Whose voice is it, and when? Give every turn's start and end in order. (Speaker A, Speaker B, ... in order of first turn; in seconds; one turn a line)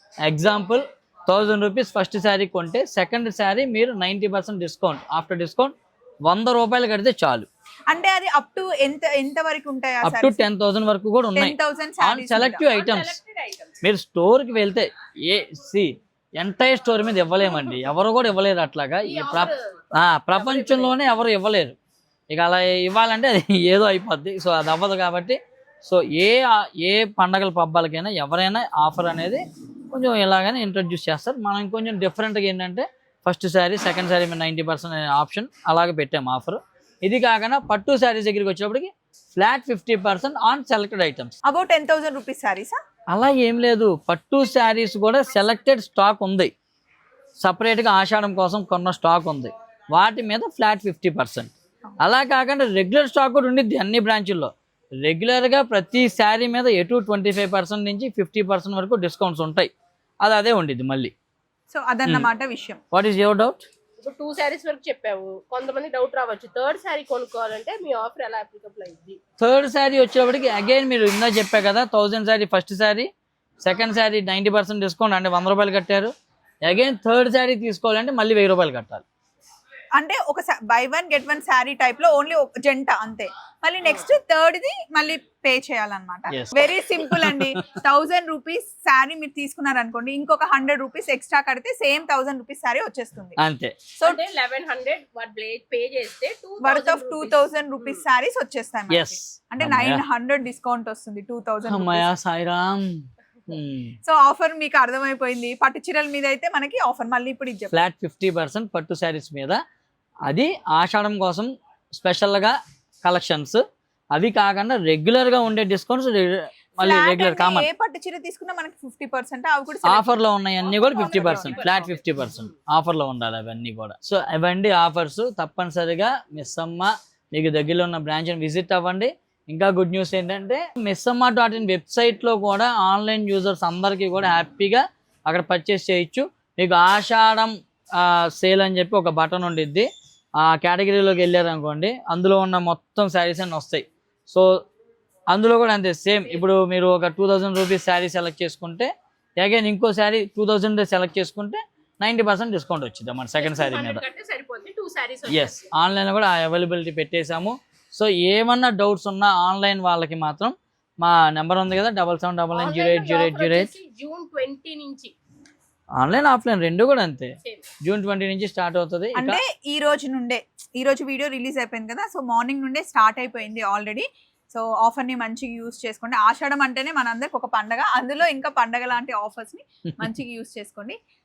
Speaker A: 0.2-5.7
Speaker A: 6.2-7.5
Speaker B: 7.9-10.4
Speaker A: 10.0-13.2
Speaker B: 11.3-12.6
Speaker C: 12.7-13.8
Speaker A: 13.8-21.8
Speaker C: 19.0-19.8
Speaker C: 20.3-20.9
Speaker A: 22.3-41.3
Speaker B: 41.4-42.8
Speaker A: 43.1-46.5
Speaker A: 47.4-59.7
Speaker A: 60.2-61.1
Speaker B: 61.7-62.8
Speaker A: 62.9-63.7
Speaker C: 64.0-69.2
Speaker A: 69.4-73.1
Speaker A: 73.6-76.1
Speaker A: 76.6-79.0
Speaker B: 80.0-93.4
Speaker A: 86.3-87.6
Speaker A: 93.4-93.7
Speaker C: 94.0-98.0
Speaker B: 96.6-102.1
Speaker A: 98.9-100.0
Speaker A: 101.7-103.9
Speaker B: 104.0-107.8
Speaker A: 107.7-109.6
Speaker A: 110.2-113.6
Speaker A: 114.1-117.7
Speaker B: 116.8-121.9
Speaker A: 119.8-139.9
Speaker C: 121.1-122.5
Speaker A: 140.4-144.5
Speaker A: 145.3-154.0
Speaker C: 153.4-155.7
Speaker A: 155.3-163.7
Speaker C: 162.5-165.1
Speaker A: 166.0-167.3
Speaker A: 167.8-169.4
Speaker B: 169.2-181.0